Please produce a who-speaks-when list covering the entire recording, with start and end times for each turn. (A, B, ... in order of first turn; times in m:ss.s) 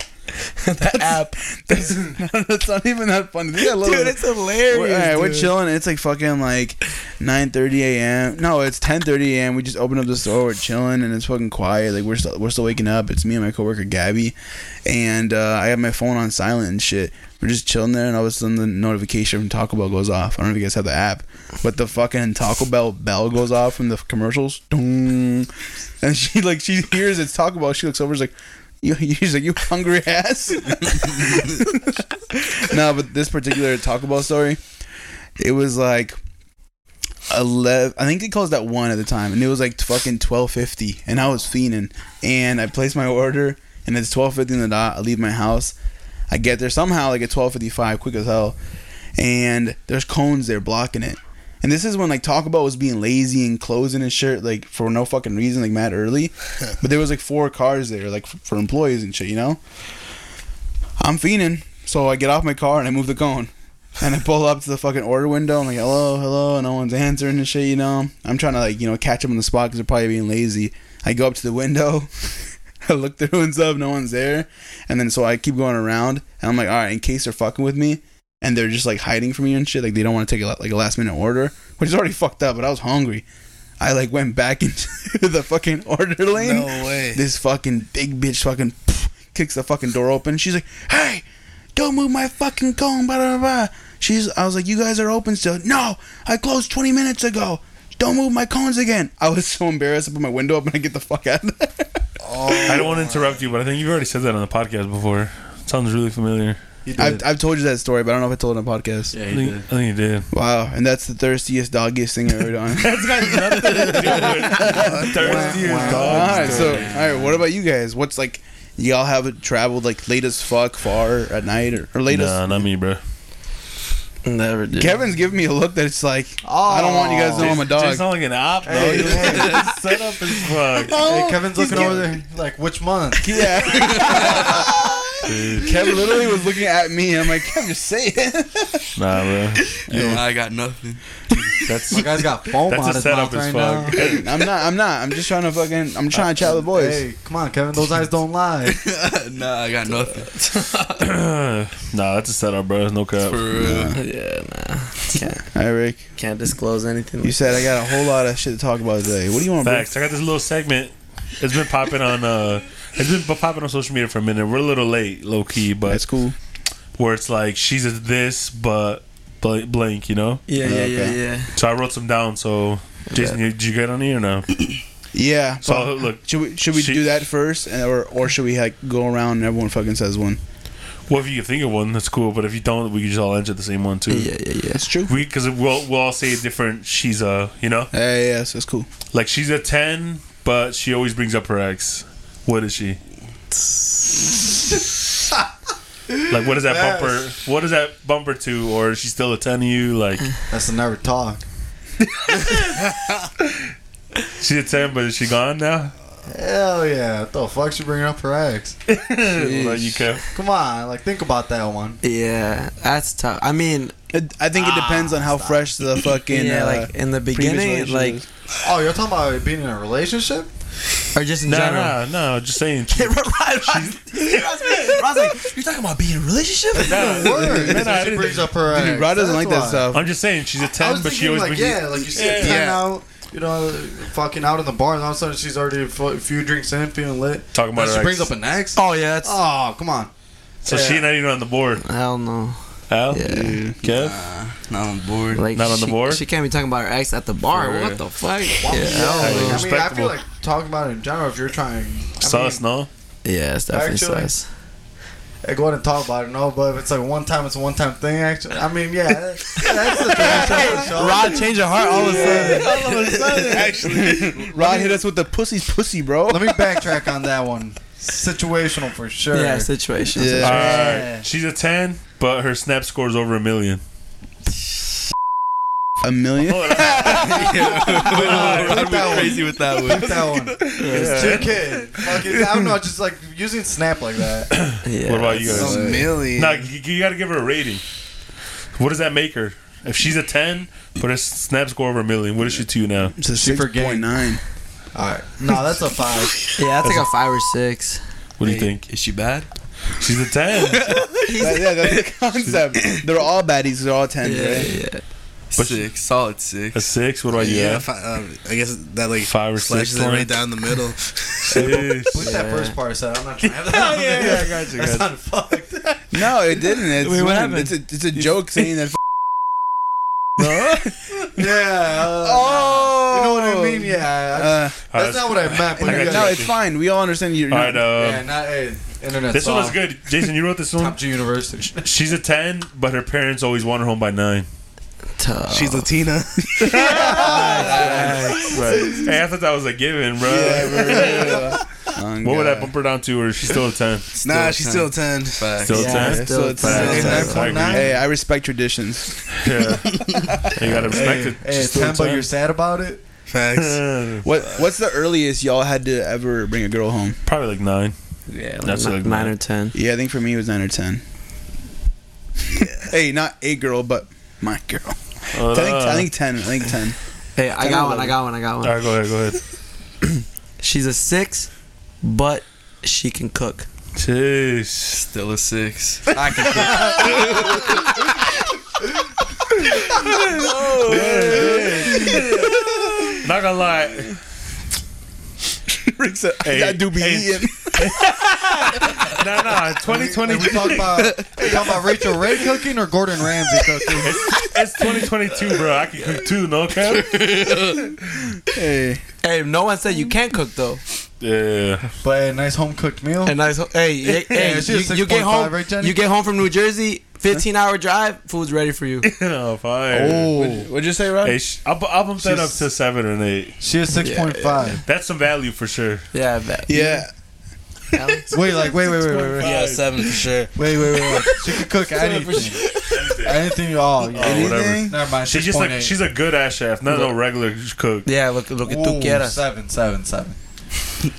0:00.3-0:01.8 A
0:01.6-0:14.3 B
0:03.6-0:05.5 A
0:14.8-0:34.6 B
0:35.4-0:36.2 B
0:37.3-0:45.7 B
0:46.3-0:48.6 B
0:49.2-0:59.6 B
1:01.0-1:23.2 B
1:23.8-1:31.2 B
1:26.3-1:27.2 C
1:31.8-1:42.5 B
1:42.4-1:42.9 D
1:42.6-1:43.1 C
1:42.6-1:46.6 E
1:46.8-1:47.2 D
1:47.0-1:49.1 B
1:49.1-1:49.6 D
1:49.3-1:50.3 E
1:50.3-2:02.6 B
1:52.8-1:56.9 E
1:54.9-1:57.4 D
2:02.1-2:03.0 E
2:04.2-2:05.0 A
2:04.7-2:08.1 B
2:06.4-2:07.6 D
2:07.3-2:11.0 E
2:08.6-2:09.7 D
2:08.7-2:09.3 B
2:10.8-2:12.1 B
2:10.9-2:13.4 D
2:13.2-2:18.9 B
2:15.2-2:15.7 E
2:19.0-2:20.2 E
2:19.9-2:20.2 B
2:19.9-2:21.0 F
2:21.6-2:24.2 E
2:21.9-2:24.2 D
2:23.9-2:27.0 B
2:26.4-2:28.8 D
2:28.7-2:30.3 F
2:30.4-2:33.5 E
2:33.3-2:33.9 F
2:33.6-2:34.0 B
2:33.9-2:35.4 A
2:35.3-2:36.0 B
2:36.2-2:37.7 A
2:37.2-2:39.9 B
2:39.6-2:46.0 E
2:45.9-2:46.4 B
2:47.0-2:50.4 E
2:50.5-2:51.5 A
2:50.6-2:51.2 B
2:51.5-2:54.7 E
2:53.1-2:53.4 A
2:55.1-3:00.4 B
2:55.6-2:57.0 E
3:01.1-3:04.3 E
3:04.1-3:04.8 A
3:04.8-3:05.1 B
3:05.1-3:07.9 E
3:07.9-3:08.9 B
3:09.1-3:13.0 E
3:16.3-3:20.3 E
3:16.6-3:17.2 D
3:20.5-3:21.4 D
3:22.1-3:22.8 E
3:23.4-3:23.7 E
3:24.3-3:25.9 E
3:26.2-3:28.8 D
3:28.9-3:30.2 E
3:29.3-3:30.0 A
3:30.3-3:32.0 D
3:32.0-3:33.9 A
3:34.1-3:38.2 B
3:34.5-3:35.6 A
3:36.3-3:38.2 A
3:38.6-3:40.5 D
3:41.1-3:42.0 A
3:41.4-3:45.2 E
3:42.9-3:47.2 A
3:46.7-3:48.5 E
3:46.8-3:49.9 D
3:47.5-3:47.8 B
3:48.7-3:50.1 B
3:49.9-3:52.6 E
3:50.7-4:00.1 D
3:52.3-3:52.9 C
3:57.5-3:58.3 E
3:58.7-3:59.4 A
4:00.6-4:01.1 D
4:00.6-4:01.8 E
4:01.8-4:03.6 A
4:02.9-4:04.2 E
4:03.3-4:03.8 B
4:03.8-4:05.4 F
4:05.3-4:09.7 A
4:05.5-4:06.2 E
4:07.5-4:08.0 E
4:08.6-4:12.6 D
4:08.9-4:10.1 E
4:12.2-4:12.9 E
4:13.2-4:14.4 A
4:13.7-4:14.3 D
4:15.4-4:23.1 D
4:20.6-4:22.8 A
4:20.8-4:21.2 B
4:22.2-4:23.8 E
4:23.4-4:24.5 C
4:23.4-4:26.7 B
4:26.3-4:29.7 D
4:29.3-4:30.8 A
4:30.1-4:31.0 B
4:30.4-4:31.2 D
4:30.4-4:33.8 E
4:36.0-4:37.4 B
4:36.5-4:39.4 E
4:37.1-4:40.8 F
4:38.0-4:44.6 D
4:40.7-4:42.0 E
4:40.8-4:41.4 A
4:44.5-4:47.8 E
4:44.8-4:45.8 A
4:45.5-4:46.6 C
4:48.8-4:53.2 E
4:53.2-4:54.4 B
4:53.3-4:54.2 D
4:54.9-4:56.4 D
4:56.6-4:58.0 A
4:58.4-4:58.9 E
4:58.4-4:59.5 F
5:00.0-5:00.9 E
5:00.8-5:01.1 F
5:01.3-5:01.5 A
5:01.4-5:04.7 B
5:04.2-5:05.0 A
5:05.5-5:06.9 F
5:05.6-5:05.9 E
5:06.7-5:07.9 E
5:07.3-5:11.6 C
5:09.3-5:10.4 E
5:11.4-5:12.2 E
5:11.5-5:16.0 D
5:12.2-5:12.7 A
5:13.6-5:15.1 E
5:16.1-5:19.0 B
5:17.0-5:18.3 A
5:20.4-5:20.9 E
5:21.3-5:26.5 D
5:22.0-5:24.8 B
5:24.9-5:26.5 E
5:25.8-5:27.9 B
5:27.5-5:28.3 E
5:27.9-5:29.8 D
5:29.3-5:31.0 E
5:30.8-5:31.9 D
5:31.8-5:34.5 E
5:35.2-5:35.9 A
5:35.5-5:36.8 C
5:36.6-5:38.6 A
5:36.7-5:41.6 E
5:36.8-5:39.0 D
5:40.2-5:42.7 B
5:42.2-5:44.1 E
5:44.2-5:45.6 C
5:44.2-5:46.1 F
5:45.6-5:48.0 E
5:45.7-5:47.7 A
5:45.9-5:49.3 B
5:46.6-5:47.9 D
5:46.7-5:47.4 C
5:49.4-5:52.3 E
5:50.1-5:50.8 B
5:50.9-5:53.0 D
5:53.3-5:54.0 C
5:53.5-5:54.2 E
5:54.2-5:57.2 B
5:57.2-5:57.9 E
5:58.3-5:59.7 A
5:58.6-5:59.3 E
5:59.7-6:01.0 B
6:02.5-6:07.0 B
6:05.3-6:06.1 E
6:07.4-6:08.7 A
6:07.6-6:08.1 B
6:08.6-6:09.4 E
6:10.6-6:11.5 A
6:12.0-6:13.6 A
6:14.0-6:15.0 E
6:14.9-6:16.2 F
6:16.1-6:17.4 D
6:20.2-6:23.2 B
6:20.7-6:22.5 E
6:23.2-6:24.2 E
6:25.7-6:28.1 B
6:26.4-6:31.6 E
6:29.9-6:34.3 D
6:34.0-6:37.3 E
6:38.5-6:39.0 B
6:39.2-6:40.8 A
6:41.2-6:41.9 E
6:42.0-6:43.3 D
6:43.2-6:49.1 A
6:44.3-6:46.0 D
6:49.0-6:50.3 E
6:49.9-6:51.4 B
6:50.3-6:50.7 D
6:51.2-6:53.6 E
6:52.2-6:52.6 D
6:53.6-6:54.8 D
6:53.9-6:54.8 A
6:54.8-6:56.0 E
6:56.1-6:57.0 A
6:56.7-6:57.1 B
6:57.9-6:58.3 A
6:58.3-6:59.6 D
6:59.0-7:00.2 E
6:59.4-7:00.6 C
7:00.5-7:05.9 D
7:02.0-7:02.5 A
7:02.8-7:03.6 E
7:04.1-7:08.1 E
7:04.2-7:04.9 B
7:06.9-7:07.1 A
7:08.0-7:09.4 A
7:08.6-7:10.4 D